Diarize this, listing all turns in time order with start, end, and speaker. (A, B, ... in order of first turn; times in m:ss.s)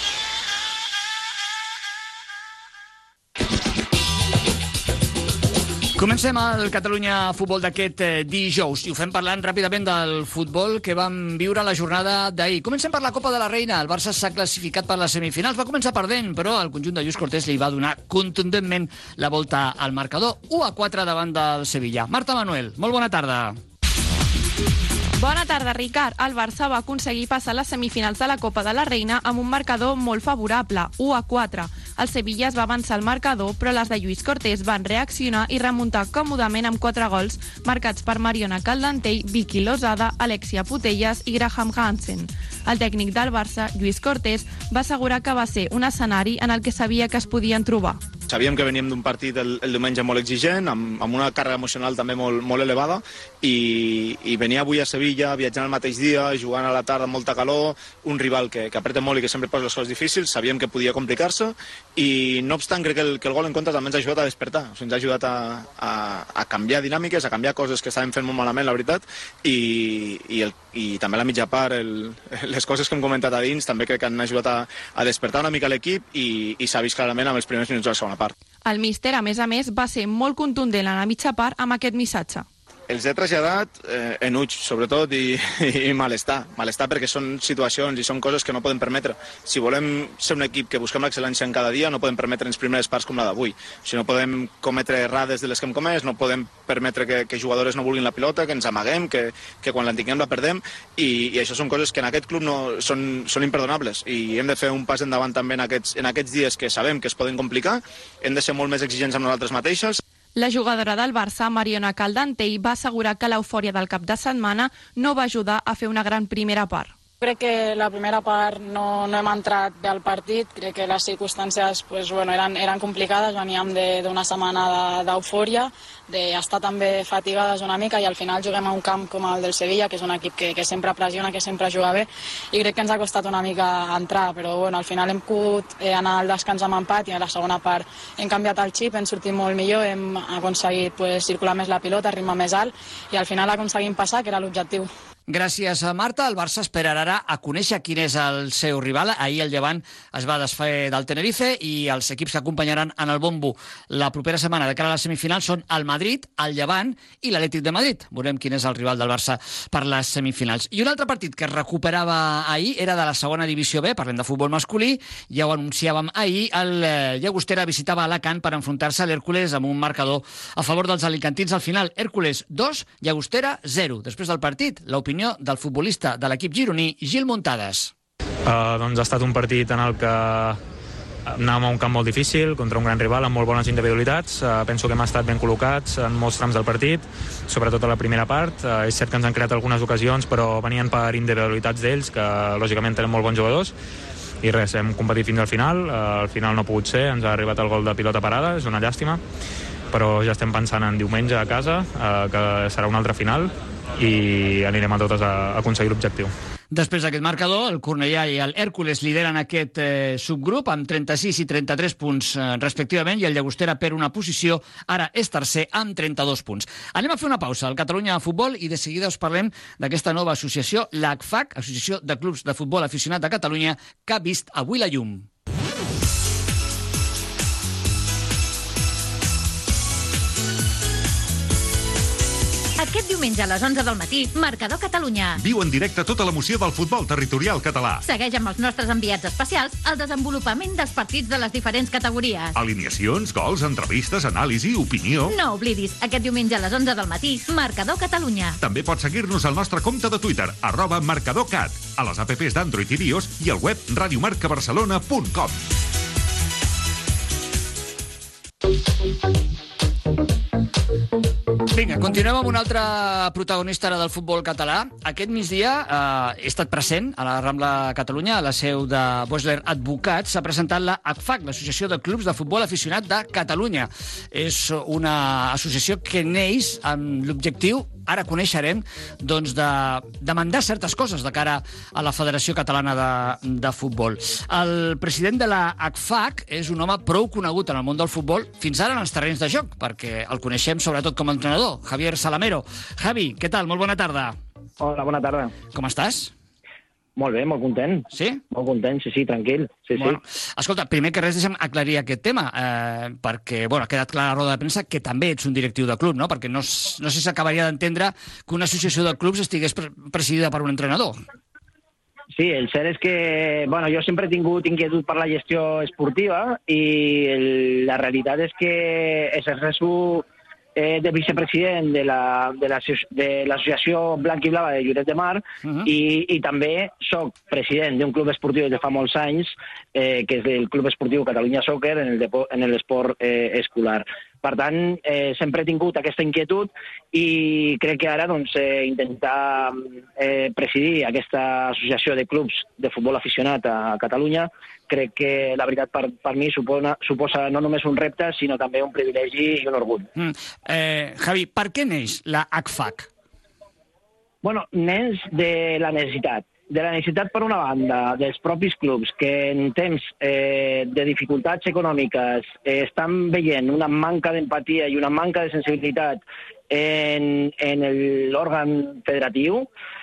0:06.0-0:23.6 A
0:25.2-0:48.0 B
0:48.3-1:18.3 C
1:18.7-1:22.5 B
1:22.9-1:50.0 C
1:50.4-1:57.0 B
1:57.2-2:24.9 D
2:25.3-2:57.9 A
2:58.5-3:00.6 E
3:01.3-3:13.7 E
3:14.4-3:19.2 E
3:19.9-3:26.3 E
3:26.7-3:45.3 A
3:52.8-3:55.4 F
3:55.4-3:58.0 G
3:58.0-4:02.5 F
4:02.6-4:05.4 G
4:05.3-4:08.6 F
4:08.6-4:15.6 G
4:21.7-4:54.4 A
4:54.8-4:55.5 H
4:55.7-4:56.3 A
4:57.2-5:00.2 H
4:58.1-4:58.4 A
5:00.0-5:11.2 A
5:12.3-5:50.1 H
5:50.2-5:53.1 A
5:54.4-6:09.7 H